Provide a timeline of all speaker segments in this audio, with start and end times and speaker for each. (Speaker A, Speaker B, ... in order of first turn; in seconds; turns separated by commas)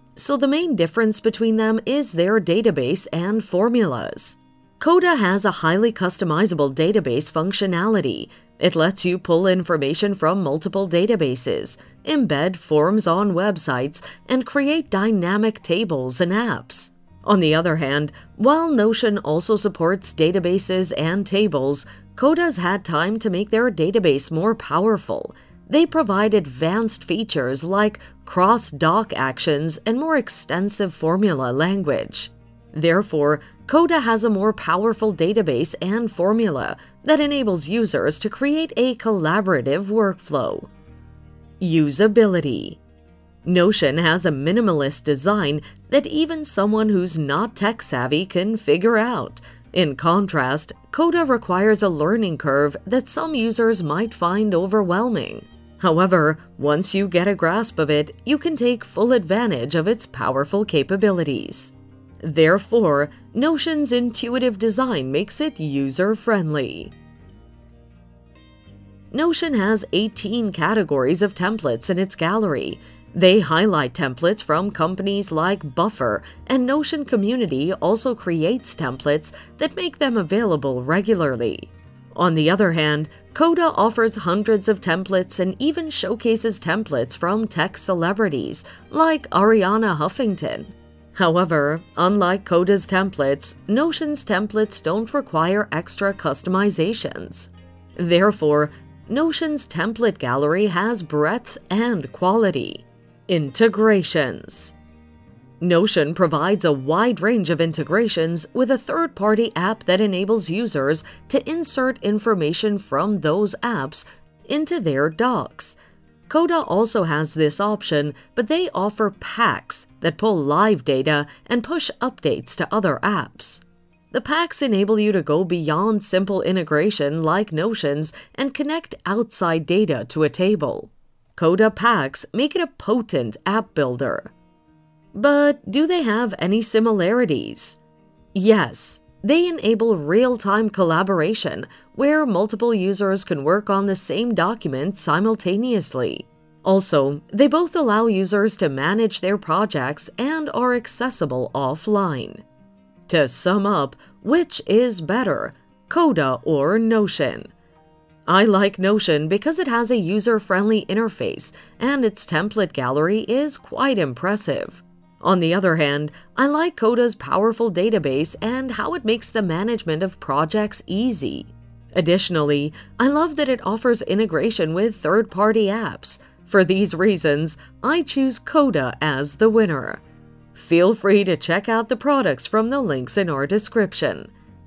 Speaker A: 0.1-40.7, Speaker A: 41.6-42.8, Speaker A: 43.4-66.9, Speaker A: 69.1-104.7, Speaker A: 105.6-115.8, Speaker A: 116.3-134.3, Speaker A: 135.1-137.8, Speaker A: 138.3-152.4, Speaker A: 153.1-157.5, Speaker A: 158.3-180.0, Speaker A: 180.5-184.3